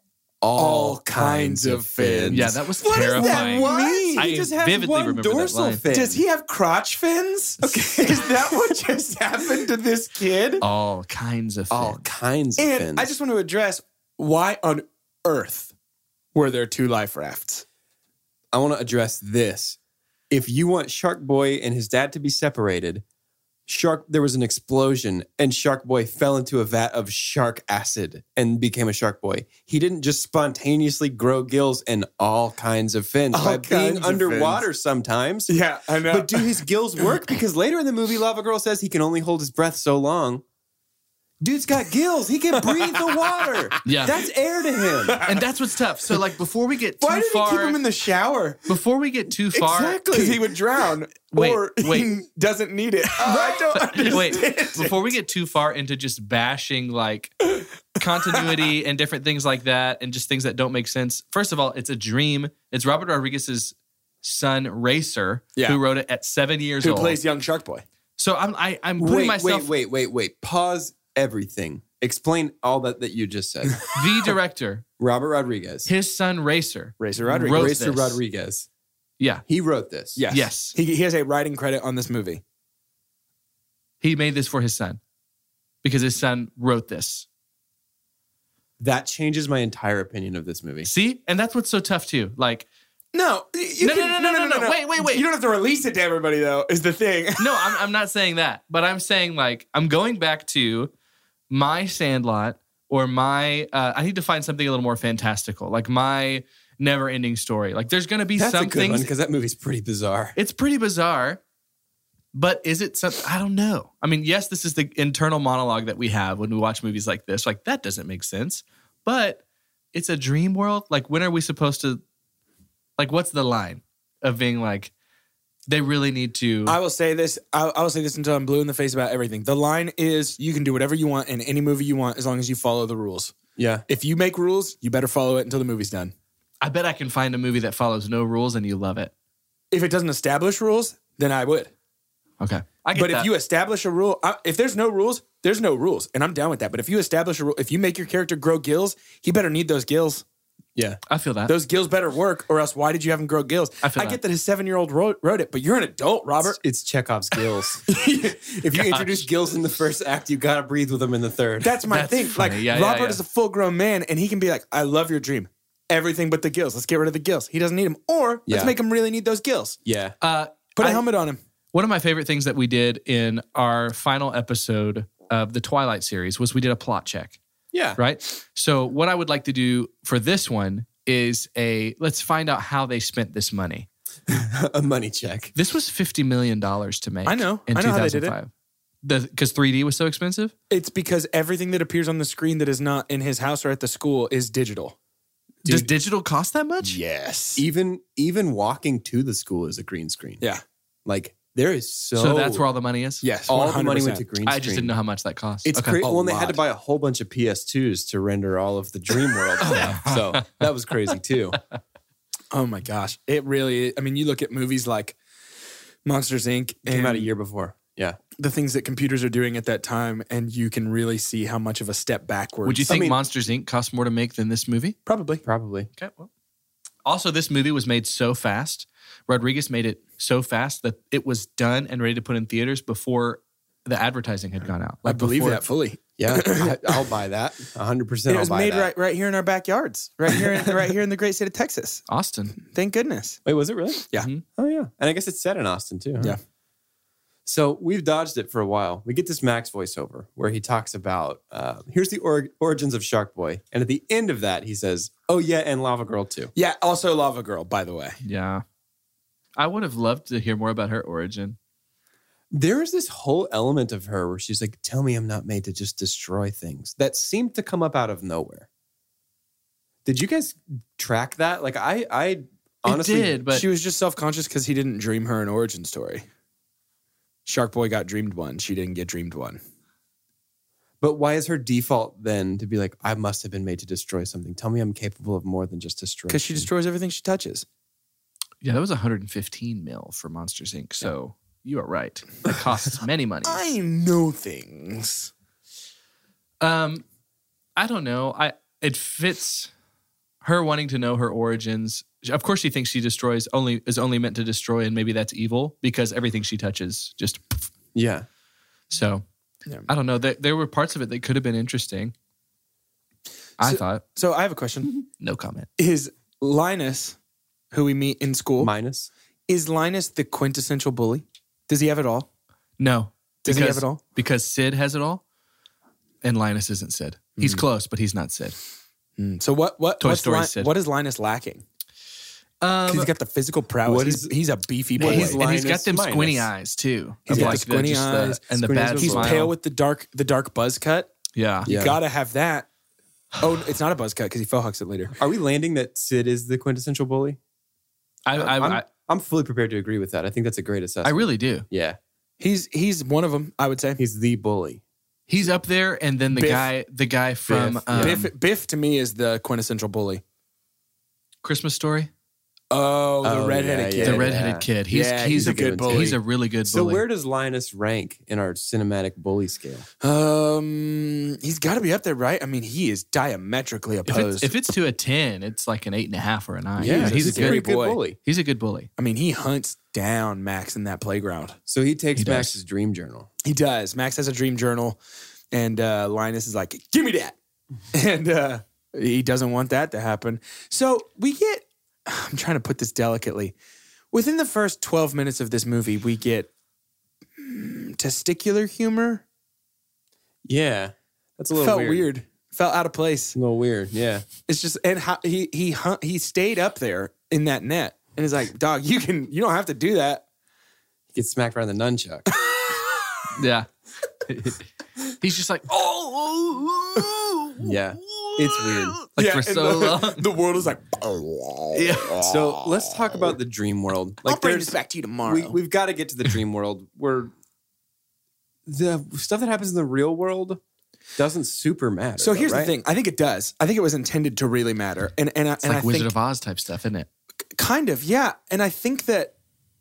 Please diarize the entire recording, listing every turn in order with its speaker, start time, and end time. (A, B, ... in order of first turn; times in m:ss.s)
0:00.4-0:06.2 A
0:00.6-0:04.3 B
0:02.3-0:05.8 C
0:05.9-0:10.6 B
0:07.6-0:08.7 A
0:10.6-0:12.0 C
0:11.7-0:13.1 A
0:12.6-0:15.7 B
0:16.4-0:17.6 B
0:18.5-0:19.8 A
0:20.3-0:23.0 A
0:23.7-0:40.4 A
0:33.3-0:34.6 B
0:35.5-0:37.0 B
0:41.4-0:45.2 A
0:42.6-0:43.2 B
0:43.9-0:44.2 C
0:45.1-0:45.4 B
0:45.2-0:47.8 C
0:47.0-0:48.6 B
0:48.7-0:50.1 C
0:49.6-0:55.1 B
0:49.9-0:50.4 A
0:51.3-0:52.2 C
0:53.2-0:54.1 A
0:54.0-1:07.2 C
1:06.8-1:07.8 B
1:08.2-1:09.7 C
1:09.0-1:13.8 A
1:13.9-1:14.8 C
1:15.0-1:15.9 A
1:15.8-1:18.2 C
1:17.0-1:17.7 B
1:17.5-1:18.7 A
1:19.5-1:20.2 A
1:20.2-1:22.4 B
1:20.3-1:20.8 C
1:24.0-1:25.0 C
1:25.8-1:27.3 C
1:28.8-1:30.9 A
1:30.8-1:32.7 C
1:33.1-1:37.7 B
1:33.8-1:35.2 C
1:37.4-1:40.9 C
1:41.5-1:49.1 C
1:48.4-1:50.4 A
1:50.4-1:51.4 C
1:52.3-1:59.4 C
1:59.9-2:02.0 C
2:03.0-2:04.9 C
2:05.7-2:06.8 C
2:06.7-2:13.3 B
2:13.6-2:13.8 A
2:13.9-2:16.1 B
2:16.6-2:19.1 C
2:19.7-2:21.7 B
2:22.4-2:23.3 C
2:22.9-2:30.2 B
2:31.1-2:31.5 C
2:31.5-2:36.6 B
2:33.8-2:34.2 C
2:36.4-2:41.8 A
2:37.9-2:38.5 B
2:38.9-2:39.2 C
2:41.6-2:49.8 B
2:41.9-2:43.2 C
2:48.5-2:48.8 A
2:49.8-2:50.2 A
2:50.2-2:51.0 C
2:50.8-2:51.4 B
2:51.7-2:57.4 C
2:57.7-2:58.0 A
2:58.0-3:03.9 C
3:04.3-3:05.5 A
3:05.6-3:08.5 C
3:07.2-3:08.4 B
3:09.0-3:10.5 C
3:10.7-3:15.0 B
3:15.6-3:17.0 C
3:16.8-3:17.6 B
3:17.6-3:20.4 A
3:21.1-3:22.6 A
3:22.2-3:23.2 C
3:23.2-3:24.2 B
3:23.5-3:25.0 A
3:24.4-3:26.0 C
3:25.7-3:31.6 A
3:26.0-3:26.6 B
3:29.6-3:30.6 C
3:32.5-3:35.2 B
3:36.0-3:37.3 B
3:36.8-3:38.2 A
3:38.4-3:43.0 B
3:42.6-3:45.0 C
3:42.9-3:43.2 A
3:45.1-3:45.4 B
3:45.4-3:45.9 A
3:46.0-3:46.3 C
3:47.0-3:55.6 C
3:55.0-3:57.1 B
3:56.2-3:58.9 A
3:58.3-4:02.0 B
4:02.1-4:02.6 C
4:02.6-4:03.4 B
4:03.4-4:06.4 A
4:04.2-4:04.4 C
4:07.5-4:16.5 A
4:16.6-4:18.2 B
4:18.2-4:18.6 C
4:19.6-4:21.6 C
4:22.5-4:28.7 A
4:30.0-4:33.4 A
4:32.8-4:33.7 C
4:33.5-4:36.2 B
4:37.5-4:39.6 B
4:41.0-4:46.7 A
4:46.3-4:47.7 B
4:48.6-4:53.7 C
4:53.4-4:55.3 B
4:56.6-4:57.0 C
4:57.8-4:59.7 C
5:00.4-5:07.7 C
5:08.0-5:08.3 A
5:08.9-5:09.2 C
5:09.9-5:12.1 C
5:13.6-5:14.0 C
5:13.6-5:14.9 B
5:15.2-5:15.7 C
5:15.8-5:17.2 B
5:17.7-5:18.7 B
5:18.6-5:19.1 A
5:19.5-5:22.3 B
5:22.8-5:25.2 C
5:23.4-5:24.0 B
5:26.2-5:28.6 C
5:27.4-5:27.6 B
5:29.2-5:31.6 B
5:30.0-5:30.7 C
5:32.6-5:33.1 C
5:32.9-5:35.4 B
5:33.8-5:34.4 A
5:35.0-5:36.5 A
5:35.0-5:39.5 C
5:37.3-5:37.6 A
5:37.3-5:38.4 B
5:38.2-5:39.4 A
5:39.0-5:41.1 B
5:41.4-5:41.7 C
5:41.6-5:42.0 A
5:41.6-5:42.7 B
5:43.4-5:45.2 B
5:45.2-5:47.4 A
5:48.2-5:48.9 C
5:48.3-5:52.0 A
5:51.0-5:51.6 C
5:52.4-5:54.0 B
5:54.0-5:54.8 A
5:55.3-5:58.3 C
5:56.3-5:56.7 B
5:57.5-5:58.2 A
5:57.9-6:00.2 B
6:01.4-6:02.1 C
6:02.7-6:06.2 B
6:03.2-6:04.7 A
6:04.0-6:07.0 C
6:05.4-6:09.9 A
6:10.0-6:14.5 B
6:14.1-6:17.7 C
6:16.8-6:18.2 A
6:16.8-6:18.0 B
6:18.2-6:18.9 C
6:19.0-6:21.6 B
6:21.7-6:23.3 A
6:22.2-6:22.6 C
6:23.4-6:25.0 B
6:25.5-6:27.4 B
6:27.9-6:33.5 B
6:34.1-6:36.5 B
6:37.4-6:39.2 B
6:40.4-6:42.1 A
6:41.6-6:43.4 B
6:43.3-6:44.3 A
6:44.5-6:50.2 B
6:51.2-6:52.3 A
6:52.4-6:52.8 B
6:53.4-6:53.7 C
6:54.3-6:54.6 C
6:55.2-7:00.2 C
6:57.6-6:59.0 A
6:59.2-7:02.4 B
7:01.8-7:02.3 C
7:02.2-7:07.3 A
7:04.2-7:05.6 B
7:08.7-7:10.6 A
7:11.2-7:12.7 A
7:12.2-7:16.1 B
7:15.6-7:17.1 C
7:17.6-7:19.4 B